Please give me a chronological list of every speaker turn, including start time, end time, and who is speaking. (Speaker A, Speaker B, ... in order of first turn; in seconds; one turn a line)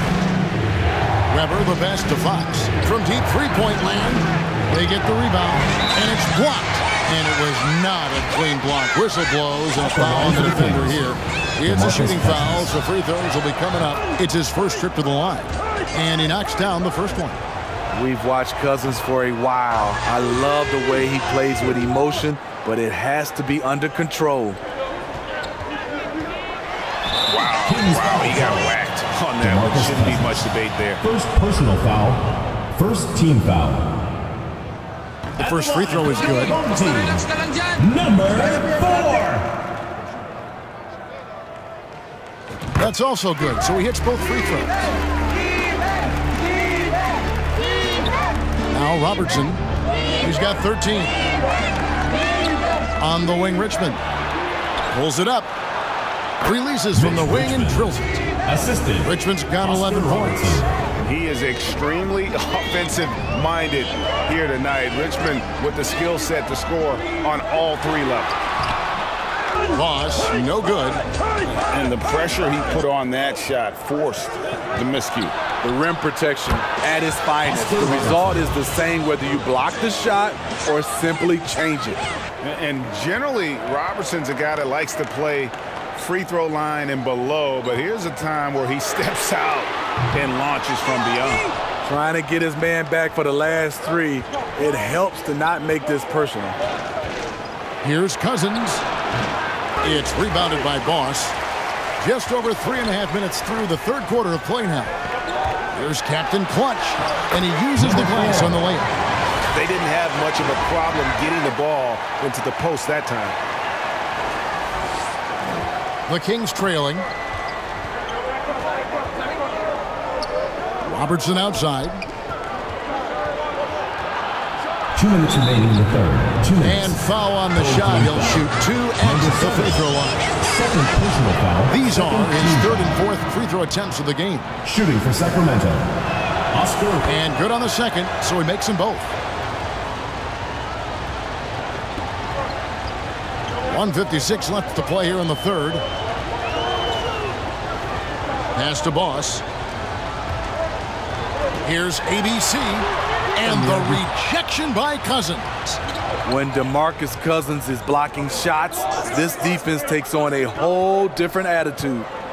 Speaker A: 1.3-17.4
Speaker B: 9.8-12.7
Speaker C: 17.9-24.6
Speaker D: 27.3-31.0
Speaker B: 27.5-28.7
Speaker B: 29.4-30.4
Speaker B: 31.0-34.0
Speaker A: 35.4-36.6
Speaker B: 35.4-39.5
Speaker A: 42.8-44.8
Speaker A: 48.7-49.6
Speaker A: 50.2-51.2
Speaker A: 53.0-54.0
Speaker A: 54.9-55.5
Speaker A: 56.4-58.2
Speaker B: 57.0-57.9
Speaker B: 58.5-60.7
Speaker A: 59.0-60.6
Speaker D: 61.0-68.3
Speaker A: 69.7-71.0
Speaker D: 71.7-75.3
Speaker C: 75.6-82.1
Speaker B: 77.5-78.5
Speaker D: 82.4-91.5
Speaker C: 91.8-96.6
Speaker A: 97.8-98.9
Speaker A: 99.8-101.4
Speaker A: 102.0-104.9
Speaker A: 105.7-109.0
Speaker B: 107.8-108.7
Speaker D: 109.5-113.4
Speaker A: 116.1-117.1
Speaker A: 120.8-122.0
Speaker B: 125.0-127.0
Speaker A: 126.6-130.3
Speaker B: 127.5-128.4
Speaker B: 129.0-129.8
Speaker B: 130.4-132.9
Speaker A: 131.7-134.6
Speaker B: 134.6-135.9
Speaker B: 136.5-137.1
Speaker A: 137.1-139.2
Speaker A: 143.7-145.8
Speaker A: 148.6-149.4
Speaker A: 151.6-155.8
Speaker B: 153.5-153.8
Speaker C: 156.2-162.1